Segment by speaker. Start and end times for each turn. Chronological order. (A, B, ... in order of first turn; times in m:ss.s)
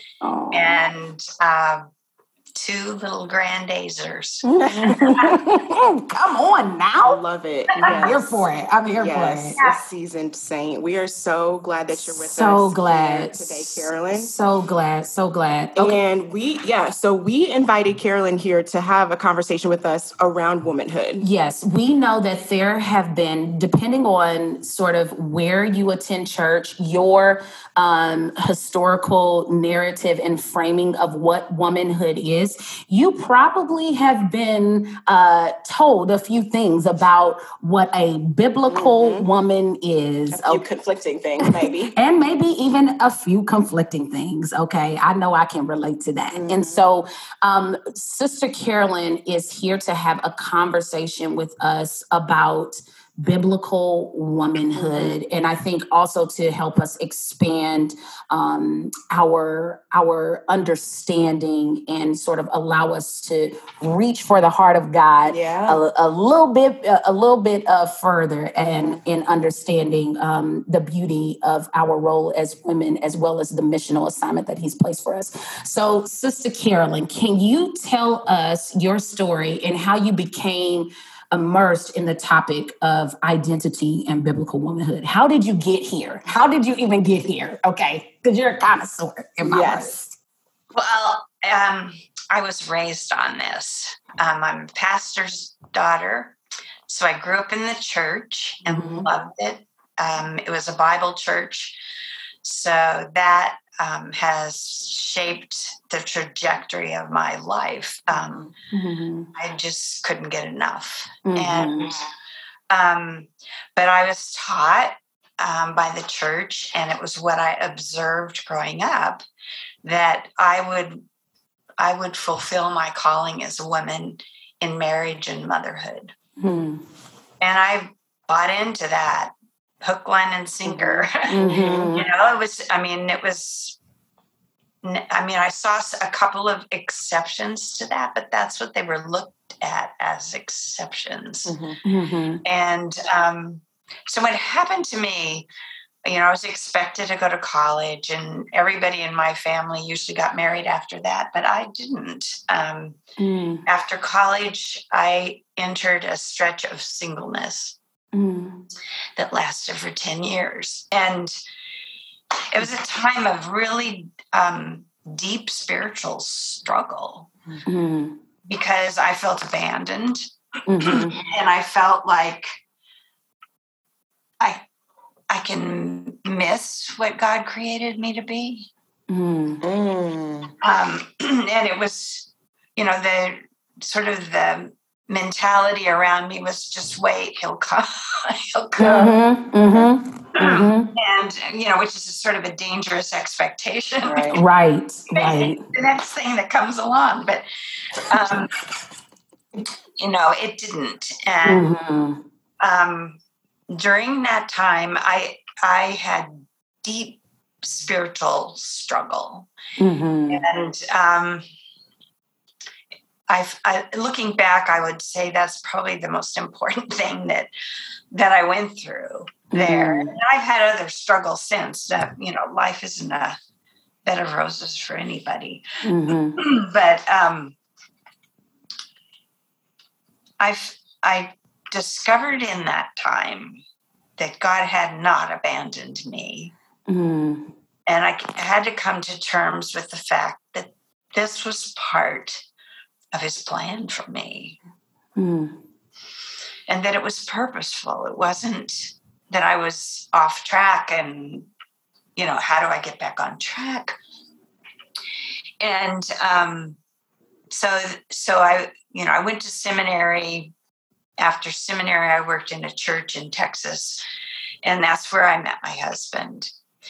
0:00.2-0:00.8 A
0:00.5-0:01.8 B
0:02.6-0:04.4 B
0:04.4-0:07.2 A
0:04.7-0:05.1 C
0:07.0-0:14.3 C
0:07.8-0:08.2 B
0:07.8-0:09.6 A
0:09.6-0:09.8 B
0:11.9-0:16.0 A
0:15.8-0:21.2 C
0:21.2-0:40.6 A
0:38.7-0:39.3 C
0:40.3-0:42.0 C
0:41.4-1:30.1 A
0:46.3-0:46.8 C
0:54.7-0:55.2 C
1:05.3-1:05.8 C
1:08.6-1:09.0 C
1:29.4-1:30.0 C
1:30.7-1:36.4 B
1:36.9-1:41.8 B
1:38.6-1:39.1 A
1:42.4-1:48.5 B
1:48.1-1:48.5 C
1:48.7-1:49.3 A
1:49.4-1:52.0 B
1:51.2-1:51.9 A
1:52.7-1:59.2 B
1:59.8-2:01.0 B
2:01.8-2:06.1 B
2:06.4-2:06.8 A
2:07.4-2:13.8 B
2:10.6-2:12.0 C
2:11.3-2:12.1 A
2:14.8-2:21.6 B
2:21.5-2:21.8 C
2:21.8-2:22.4 A
2:22.4-2:25.5 B
2:26.0-2:33.0 B
2:33.2-2:33.6 A
2:33.7-2:37.8 B
2:38.1-2:38.6 A
2:39.2-2:41.4 B
2:42.5-2:47.3 B
2:47.7-2:48.2 A
2:48.5-2:50.2 B
2:50.7-2:51.2 A
2:50.9-2:52.6 B
2:55.3-2:58.7 B
2:59.1-2:59.6 A
2:59.6-3:00.5 C
3:00.6-3:09.1 B
3:08.8-3:10.9 A
3:08.8-3:09.1 C
3:10.4-3:14.4 B
3:14.0-3:14.4 C
3:14.3-3:15.6 A
3:15.1-3:17.4 B
3:18.0-3:18.5 B
3:20.0-3:21.7 B
3:21.5-3:22.2 A
3:22.6-3:23.2 B
3:23.7-3:29.5 B
3:29.8-3:30.4 A
3:30.3-3:31.4 B
3:33.3-3:37.5 B
3:38.1-3:43.4 B
3:39.5-3:40.2 A
3:44.0-3:45.6 B
3:45.8-3:46.4 A
3:46.4-3:47.6 B
3:50.4-3:53.6 B
3:54.2-3:56.5 B
3:56.9-3:57.5 A
3:57.9-4:02.4 B
4:03.1-4:04.6 B
4:05.2-4:05.6 A
4:06.7-4:11.5 B
4:12.2-4:14.0 B
4:15.6-4:16.8 B
4:17.5-4:20.5 B
4:21.2-4:24.0 B
4:24.6-4:26.5 B